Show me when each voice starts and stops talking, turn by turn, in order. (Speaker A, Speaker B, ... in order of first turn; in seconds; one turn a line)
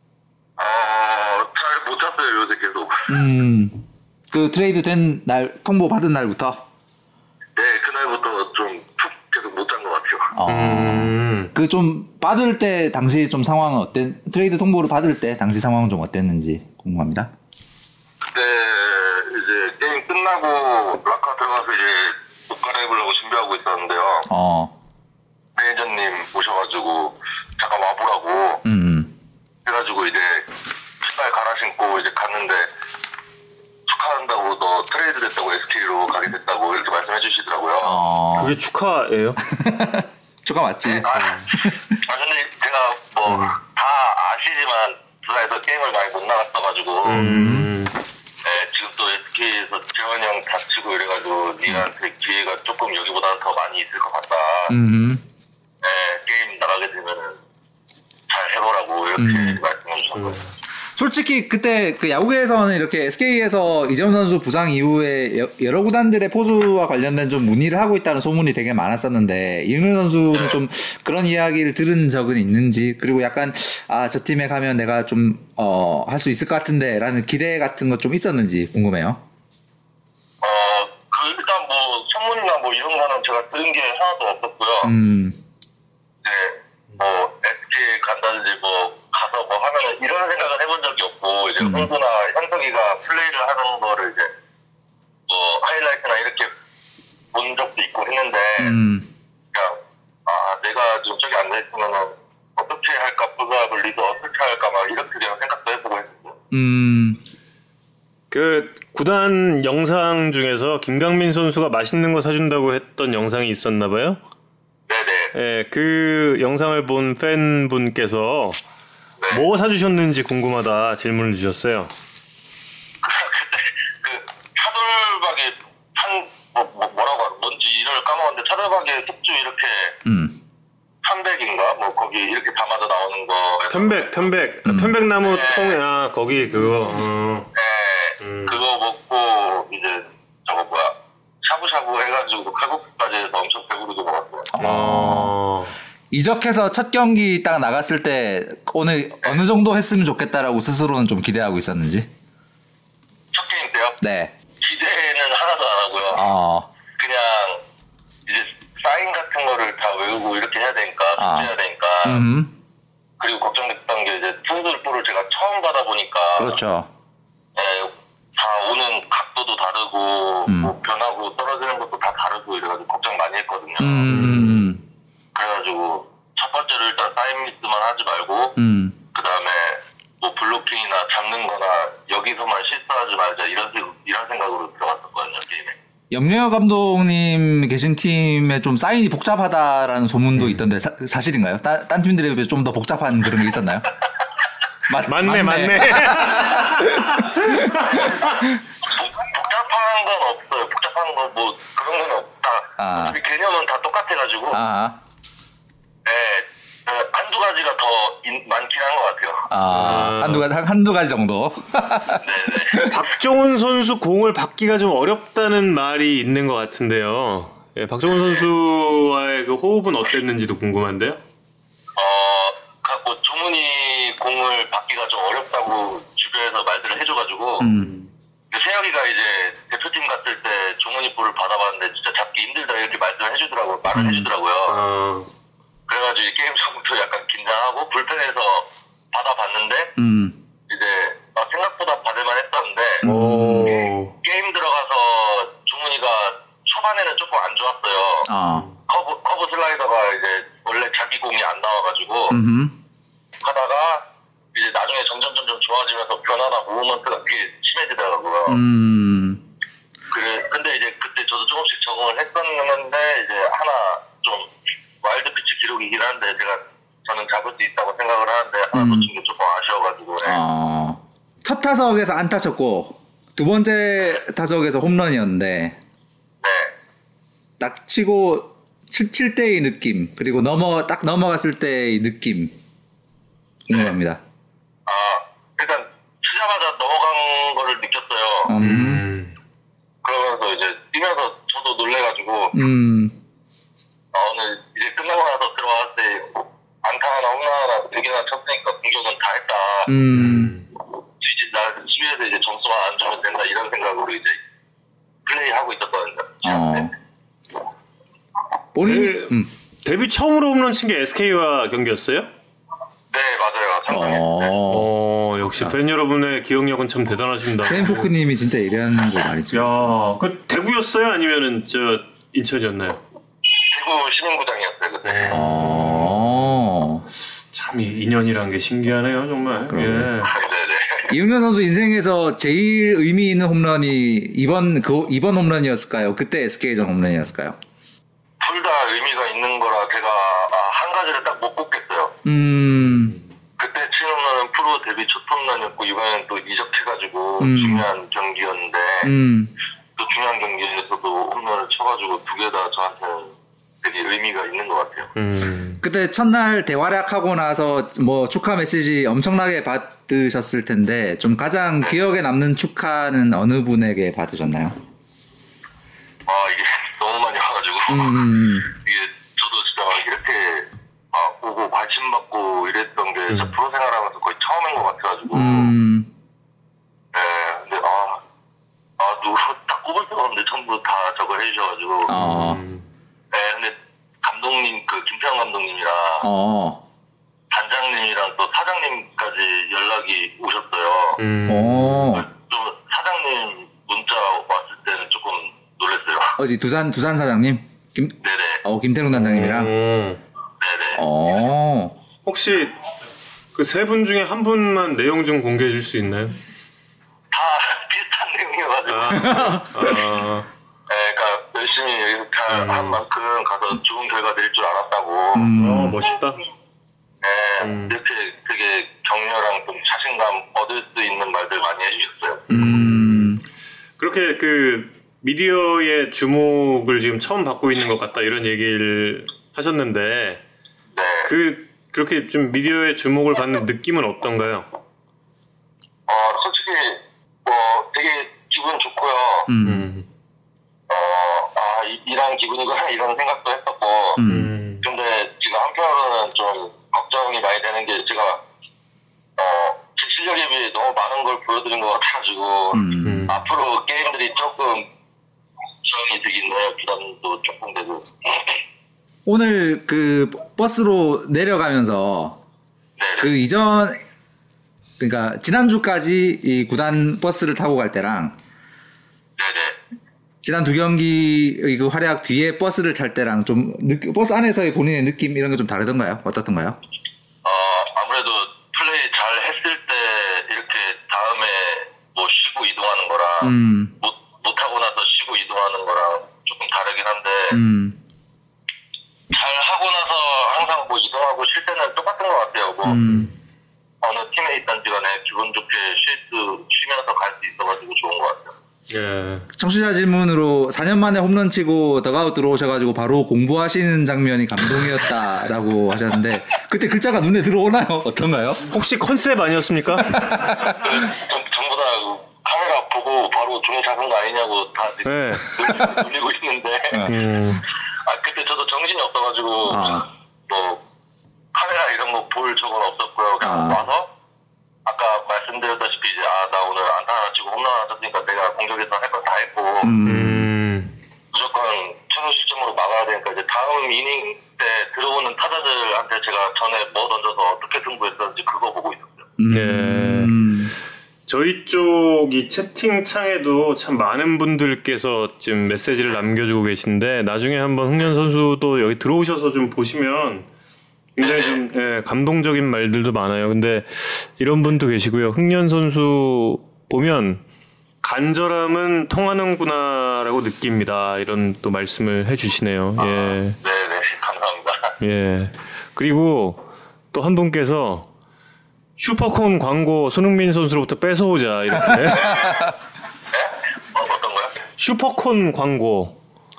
Speaker A: 0.6-3.1
Speaker B: 3.1-6.6
Speaker A: 7.6-10.3
Speaker B: 10.3-17.3
Speaker C: 10.5-11.5
Speaker A: 18.2-24.3
Speaker B: 24.3-24.7
Speaker A: 25.6-28.6
Speaker B: 28.6-29.1
Speaker A: 29.6-30.5
Speaker A: 31.0-32.7
Speaker A: 33.9-38.0
Speaker B: 37.8-38.5
Speaker C: 38.4-39.4
Speaker B: 39.4-41.8
Speaker A: 40.9-47.3
Speaker C: 41.1-41.4
Speaker C: 43.3-43.6
Speaker C: 47.0-48.0
Speaker B: 47.2-47.7
Speaker A: 48.4-54.8
Speaker B: 54.7-55.2
Speaker A: 55.8-57.4
Speaker A: 58.3-60.5
Speaker B: 59.2-59.6
Speaker B: 61.0-79.2
Speaker A: 70.3-70.6
Speaker A: 80.4-84.9
Speaker B: 84.8-85.4
Speaker A: 86.2-94.3
Speaker B: 91.6-91.9
Speaker A: 95.3-96.5
Speaker A: 97.3-98.8
Speaker B: 98.6-99.1
Speaker A: 99.5-106.4
Speaker B: 106.5-107.2
Speaker C: 108.3-114.2
Speaker A: 114.9-115.3
Speaker C: 115.3-118.6
Speaker A: 119.2-119.4
Speaker C: 119.3-121.9
Speaker A: 123.0-130.0
Speaker B: 130.1-130.4
Speaker A: 131.0-134.2
Speaker C: 133.7-137.5
Speaker B: 134.7-134.9
Speaker A: 135.2-135.8
Speaker A: 137.6-144.5
Speaker C: 138.2-138.6
Speaker B: 144.5-145.4
Speaker C: 144.6-145.7
Speaker B: 146.1-152.1
Speaker A: 153.3-154.0
Speaker B: 154.0-154.3
Speaker A: 154.6-156.2
Speaker B: 156.1-156.7
Speaker A: 157.0-157.6
Speaker A: 158.3-162.3
Speaker B: 161.2-161.5
Speaker B: 162.0-162.5
Speaker A: 163.2-166.6
Speaker B: 166.3-166.9
Speaker A: 167.6-174.5
Speaker B: 170.5-170.7
Speaker B: 173.8-174.8
Speaker C: 174.1-174.7
Speaker A: 175.3-178.6
Speaker B: 178.6-179.0
Speaker A: 179.1-185.8
Speaker B: 186.1-193.9
Speaker B: 194.9-198.4
Speaker C: 195.0-197.8
Speaker A: 197.8-204.6
Speaker B: 202.8-203.2
Speaker B: 204.5-205.0
Speaker A: 206.1-209.5
Speaker B: 209.5-212.9
Speaker C: 209.7-210.4
Speaker A: 212.2-213.1
Speaker C: 212.8-221.2
Speaker A: 222.0-227.7
Speaker B: 227.6-227.9
Speaker A: 228.5-234.8
Speaker B: 233.9-234.3
Speaker C: 234.7-235.3
Speaker A: 235.9-239.9
Speaker B: 240.0-240.4
Speaker A: 240.7-243.1
Speaker B: 243.0-243.8
Speaker C: 243.0-244.1
Speaker A: 243.7-248.3
Speaker B: 248.2-248.7
Speaker A: 248.9-252.4
Speaker B: 252.3-252.8
Speaker A: 253.4-258.6
Speaker B: 258.5-259.4
Speaker A: 260.1-270.4
Speaker B: 268.7-269.1
Speaker B: 270.2-275.8
Speaker A: 276.4-276.7
Speaker B: 277.6-282.5
Speaker B: 283.7-284.2
Speaker A: 284.9-288.6
Speaker B: 288.5-289.1
Speaker C: 288.6-289.3
Speaker A: 290.0-292.6
Speaker B: 292.5-293.2
Speaker A: 294.1-300.0
Speaker B: 299.9-300.6
Speaker C: 300.1-300.7
Speaker A: 300.9-304.4
Speaker A: 305.2-306.9
Speaker B: 306.4-306.9
Speaker B: 308.7-309.5
Speaker C: 308.8-312.3
Speaker A: 313.1-314.6
Speaker B: 313.9-314.9
Speaker C: 314.7-318.1
Speaker B: 317.6-319.9
Speaker C: 319.5-323.0
Speaker A: 323.4-325.5
Speaker C: 325.0-326.5
Speaker B: 325.3-327.1
Speaker C: 327.5-330.3
Speaker B: 329.7-330.1
Speaker A: 330.2-331.1
Speaker B: 331.1-337.6
Speaker A: 338.4-342.2
Speaker B: 342.2-343.2
Speaker A: 343.6-349.1
Speaker B: 347.4-347.9
Speaker B: 349.0-349.5
Speaker A: 350.0-355.1
Speaker C: 355.2-355.8
Speaker B: 355.8-364.8
Speaker A: 366.3-375.7
Speaker B: 367.9-368.7
Speaker C: 373.3-373.5
Speaker B: 375.3-376.1
Speaker A: 377.1-378.2
Speaker A: 379.0-382.1
Speaker B: 382.1-382.6
Speaker C: 382.2-382.8
Speaker A: 383.3-386.3
Speaker B: 386.2-386.8
Speaker A: 387.5-391.2
Speaker C: 391.2-392.1
Speaker B: 391.5-392.3
Speaker A: 392.1-396.4
Speaker B: 396.4-399.8
Speaker A: 398.2-398.6
Speaker C: 399.1-400.2
Speaker A: 400.6-401.0
Speaker B: 400.9-402.0
Speaker C: 402.2-402.8
Speaker C: 403.5-406.4
Speaker A: 407.3-409.9
Speaker C: 408.9-410.5
Speaker B: 409.1-409.9
Speaker A: 410.9-415.6
Speaker C: 412.5-413.0
Speaker B: 415.3-416.0
Speaker C: 415.5-416.4
Speaker A: 417.2-422.5
Speaker C: 417.6-417.9
Speaker B: 422.5-423.4
Speaker C: 422.5-423.4
Speaker C: 424.0-430.4
Speaker A: 430.9-431.3
Speaker C: 431.2-434.7
Speaker A: 436.1-439.5
Speaker B: 439.5-439.9
Speaker C: 439.6-440.1
Speaker A: 440.9-444.2
Speaker B: 444.2-444.6
Speaker C: 444.3-444.9
Speaker A: 444.8-448.4
Speaker A: 449.4-454.9
Speaker B: 452.7-453.3
Speaker C: 453.0-453.4
Speaker A: 455.8-458.6
Speaker B: 459.3-462.4
Speaker A: 463.0-463.3
Speaker B: 463.2-464.0
Speaker B: 465.0-468.4
Speaker A: 469.4-469.8
Speaker B: 470.4-476.8
Speaker A: 477.4-487.6
Speaker B: 483.4-483.9
Speaker B: 487.5-488.0
Speaker A: 489.3-493.0
Speaker B: 492.8-493.3
Speaker A: 494.0-498.6
Speaker C: 498.9-499.5
Speaker B: 499.5-508.7
Speaker C: 508.7-510.5
Speaker B: 510.0-510.9
Speaker A: 510.7-517.1
Speaker C: 515.0-515.8
Speaker C: 517.1-517.6
Speaker A: 518.0-520.8
Speaker B: 519.6-520.1
Speaker A: 521.5-524.1
Speaker B: 523.4-523.8
Speaker A: 524.9-530.0
Speaker B: 529.8-530.5
Speaker C: 530.0-530.9
Speaker A: 531.3-539.3
Speaker B: 539.4-540.7
Speaker C: 539.5-540.5
Speaker C: 541.3-550.5
Speaker C: 551.2-557.4
Speaker A: 551.2-551.6
Speaker C: 558.0-563.6
Speaker A: 563.0-565.0
Speaker C: 565.0-568.1
Speaker C: 569.0-572.6
Speaker B: 572.2-572.7
Speaker A: 573.3-574.5
Speaker C: 574.8-576.2